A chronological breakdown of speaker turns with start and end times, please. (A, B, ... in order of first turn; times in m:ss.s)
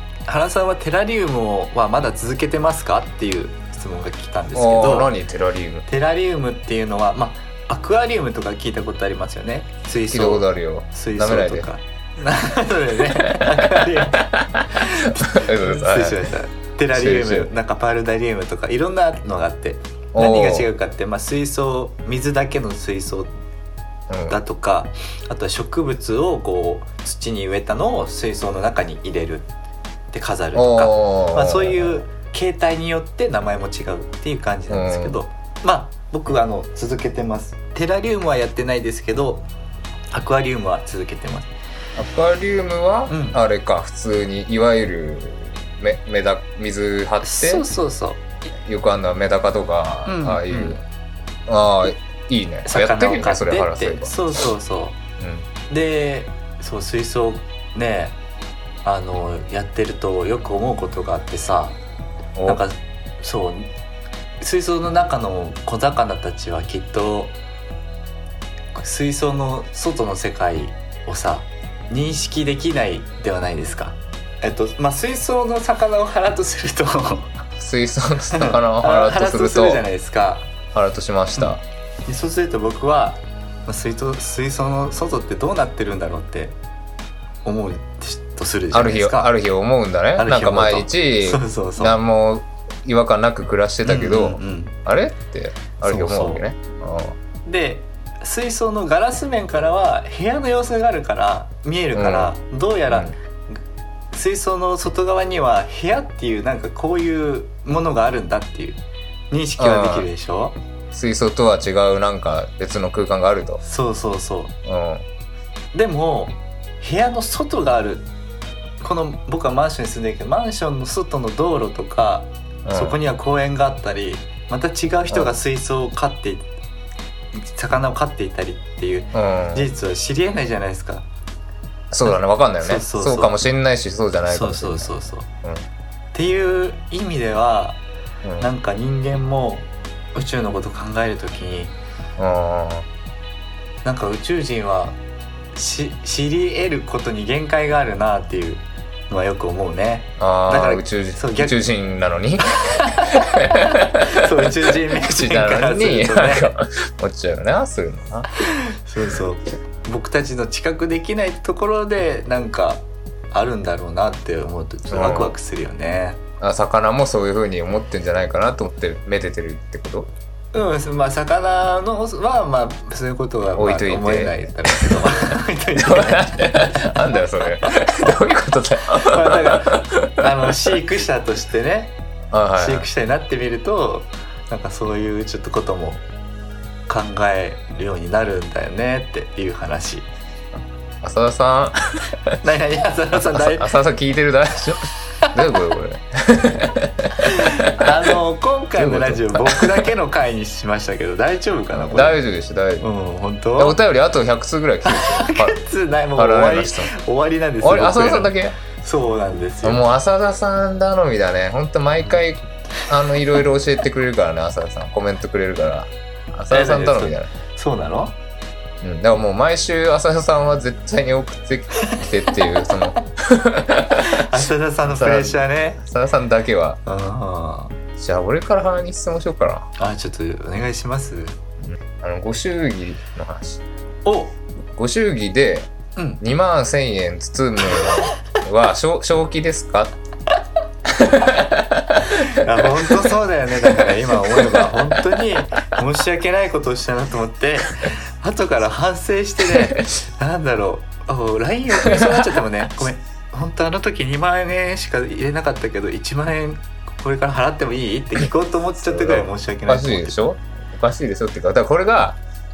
0:00.3-0:05.1 A
0:04.6-0:05.9 B
0:05.9-0:23.3 A
0:10.1-0:11.7 B
0:13.3-0:16.3 B
0:16.9-0:17.5 B
0:20.1-0:20.7 B
0:24.1-0:24.4 B
0:24.3-0:29.5 A
0:30.1-0:39.4 A
0:30.6-0:32.0 B
0:34.7-0:35.2 B
0:40.1-0:41.5 A
0:42.0-0:47.7 B
0:43.1-0:43.4 A
0:47.2-0:48.3 A
0:48.5-0:50.8 B
0:50.1-0:50.8 A
0:51.5-0:54.2 B
0:52.7-0:55.0 A
0:55.2-0:55.5 B
0:55.7-0:58.2 A
0:58.8-1:01.8 A
1:02.4-1:02.6 B
1:02.5-1:03.7 A
1:04.4-1:07.4 A
1:08.8-1:17.3 A
1:17.6-1:19.8 B
1:18.3-1:20.5 A
1:20.7-1:21.6 B
1:21.4-1:26.6 A
1:27.4-1:29.3 A
1:28.7-1:37.2 B
1:30.2-1:32.0 A
1:33.8-1:34.8 A
1:35.8-1:36.5 A
1:37.4-1:43.6 A
1:41.9-1:42.3 B
1:42.9-1:43.2 B
1:44.1-1:50.6 A
1:49.6-1:50.1 B
1:50.9-1:53.6 B
1:53.6-1:54.6 A
1:54.6-1:55.0 B
1:55.7-1:58.1 A
1:58.8-2:06.5 A
2:02.6-2:03.0 B
2:07.4-2:11.1 A
2:09.1-2:09.7 B
2:11.9-2:14.9 B
2:12.1-2:13.4 A
2:14.3-2:15.3 A
2:16.1-2:17.8 A
2:18.2-2:18.5 B
2:18.4-2:21.8 A
2:22.2-2:22.9 B
2:23.8-2:25.0 A
2:25.5-2:31.6 A
2:30.2-2:32.5 B
2:32.7-2:36.5 A
2:33.1-2:38.3 B
2:38.4-2:46.2 A
2:44.9-2:45.4 B
2:46.4-2:50.1 B
2:50.5-2:58.3 A
2:53.6-3:00.8 B
2:59.0-3:02.0 A
3:02.3-3:02.9 B
3:02.6-3:06.0 A
3:06.9-3:10.1 A
3:11.0-3:12.4 B
3:12.4-3:13.7 A
3:13.2-3:18.0 B
3:17.2-3:22.2 A
3:18.8-3:19.9 B
3:21.9-3:22.9 B
3:22.8-3:23.8 A
3:23.6-3:25.6 B
3:24.8-3:29.8 A
3:26.2-3:26.9 B
3:27.6-3:28.6 B
3:29.6-3:37.3 B
3:36.5-3:38.2 A
3:38.8-3:44.4 B
3:41.8-3:42.7 A
3:44.0-3:45.8 A
3:45.0-3:46.8 B
3:46.8-3:47.8 A
3:48.0-3:49.7 B
3:49.8-3:51.4 A
3:51.6-3:53.6 B
3:54.0-3:54.4 A
3:54.7-3:55.7 B
3:56.0-3:56.2 A
3:56.2-4:00.0 B
4:00.9-4:03.1 B
4:02.1-4:20.3 A
4:03.6-4:05.0 B
4:09.5-4:09.9 B
4:11.8-4:12.1 B
4:18.8-4:22.2 B